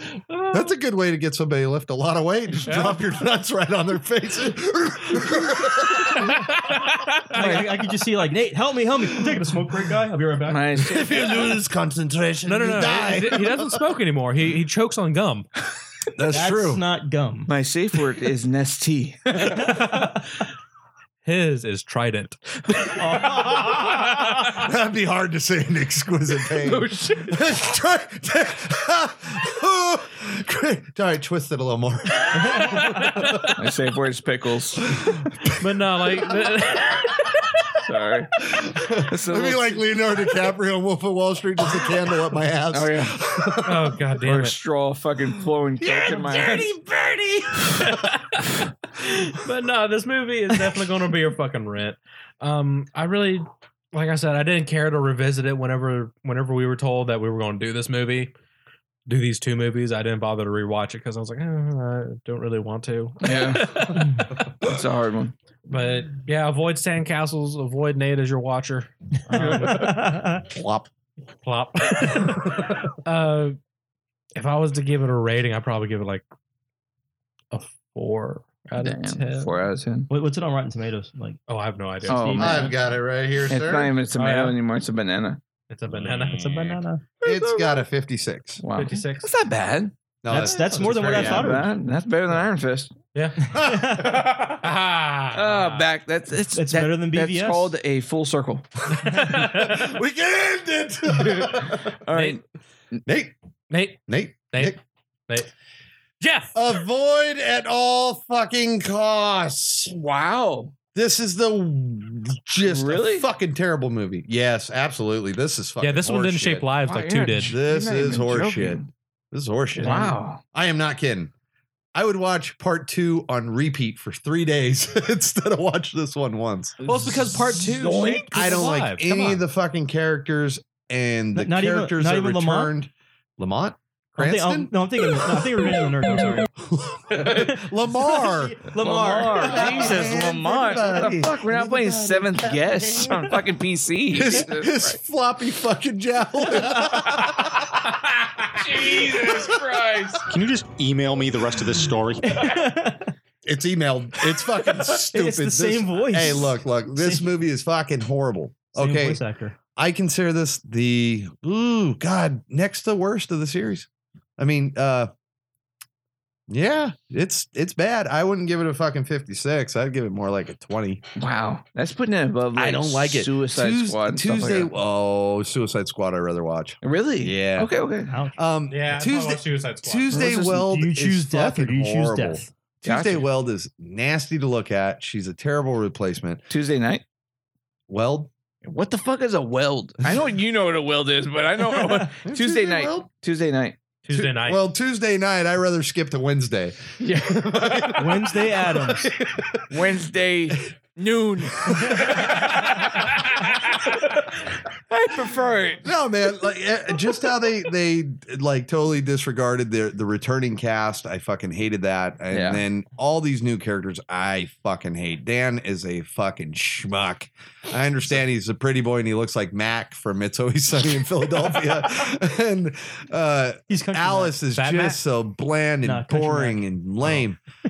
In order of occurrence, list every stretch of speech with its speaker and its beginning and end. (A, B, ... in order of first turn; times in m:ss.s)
0:00.3-0:00.6 A
0:00.5-0:06.3 B
0:02.7-0:03.0 A
0:05.8-0:07.8 A
0:07.3-0:10.6 C
0:10.5-0:11.6 D
0:10.8-0:13.8 B
0:12.5-0:15.5 A
0:16.2-0:16.8 B
0:16.3-0:17.5 C
0:17.5-0:19.4 D
0:19.4-0:20.2 A
0:21.2-0:24.5 A
0:23.0-0:24.2 C
0:24.5-0:33.5 B
0:26.6-0:27.4 D
0:32.5-0:33.6 A
0:33.6-0:35.1 D
0:35.0-0:35.6 B
0:35.5-0:37.3 A
0:37.8-0:38.3 D
0:38.6-0:44.0 B
0:39.0-0:39.8 D
0:42.7-0:43.2 D
0:43.6-0:44.6 A
0:44.2-0:46.7 D
0:45.8-0:48.1 B
0:47.7-0:58.3 A
0:59.1-1:04.5 A
1:03.2-1:03.8 D
1:04.6-1:05.3 D
1:05.7-1:10.2 A
1:09.3-1:10.4 C
1:10.5-1:10.9 B
1:11.4-1:13.6 A
1:12.1-1:12.9 B
1:14.4-1:16.3 A
1:17.5-1:19.6 A
1:18.8-1:20.1 D
1:20.1-1:21.4 C
1:21.5-1:22.6 A
1:22.0-1:22.7 C
1:22.0-1:22.8 D
1:22.4-1:24.0 B
1:23.5-1:25.4 D
1:24.2-1:24.6 A
1:25.7-1:26.8 A
1:25.9-1:28.6 B
1:26.7-1:27.1 C
1:28.6-1:29.9 D
1:28.7-1:29.3 A
1:30.2-1:31.5 B
1:30.3-1:31.7 C
1:30.3-1:31.5 A
1:30.7-1:32.9 D
1:33.1-1:35.9 A
1:33.5-1:34.2 C
1:33.5-1:34.5 B
1:35.3-1:38.7 D
1:36.6-1:37.7 C
1:39.0-1:39.9 A
1:39.0-1:42.0 B
1:41.1-1:42.4 D
1:42.1-1:42.4 A
1:43.0-1:43.3 B
1:43.7-1:45.5 A
1:44.1-1:44.8 B
1:46.2-1:46.6 A
1:46.5-1:50.0 B
1:50.0-1:50.8 D
1:51.0-1:56.7 B
1:52.6-1:53.3 D
1:55.8-1:57.5 A
1:56.8-1:58.9 D
1:57.4-2:01.3 B
1:59.8-2:00.4 D
1:59.9-2:00.2 C
2:01.9-2:06.8 B
2:06.8-2:08.4 D
2:06.8-2:09.4 A
2:06.9-2:08.3 C
2:08.3-2:15.5 B
2:11.4-2:12.7 C
2:14.2-2:16.5 C
2:16.6-2:18.7 B
2:17.3-2:20.1 C
2:18.8-2:25.0 D
2:19.4-2:22.8 B
2:24.1-2:27.7 B
2:28.5-2:30.2 D
2:28.8-2:29.6 B
2:30.3-2:32.4 E
2:32.3-2:33.1 C
2:33.4-2:39.2 B
2:35.1-2:37.3 C
2:38.8-2:39.6 C
2:39.8-2:45.1 B
2:46.5-2:51.0 B
2:51.2-2:54.7 D
2:52.6-2:57.7 B
2:56.8-2:58.1 D
2:58.1-2:58.4 C
2:58.4-3:06.4 B
2:58.7-3:00.1 A
3:00.1-3:02.5 C
3:02.8-3:03.3 D
3:06.5-3:07.0 D
3:07.9-3:08.3 B
3:08.6-3:13.8 D
3:12.1-3:13.1 B
3:14.1-3:14.6 A
3:14.1-3:19.8 B
3:17.0-3:18.1 D
3:18.0-3:19.1 C
3:19.7-3:23.1 D
3:21.6-3:22.5 B
3:24.9-3:25.9 D
3:25.8-3:47.4 B
3:32.3-3:32.6 D
3:43.7-3:44.4 C
3:44.6-3:45.0 A
3:45.8-3:46.6 C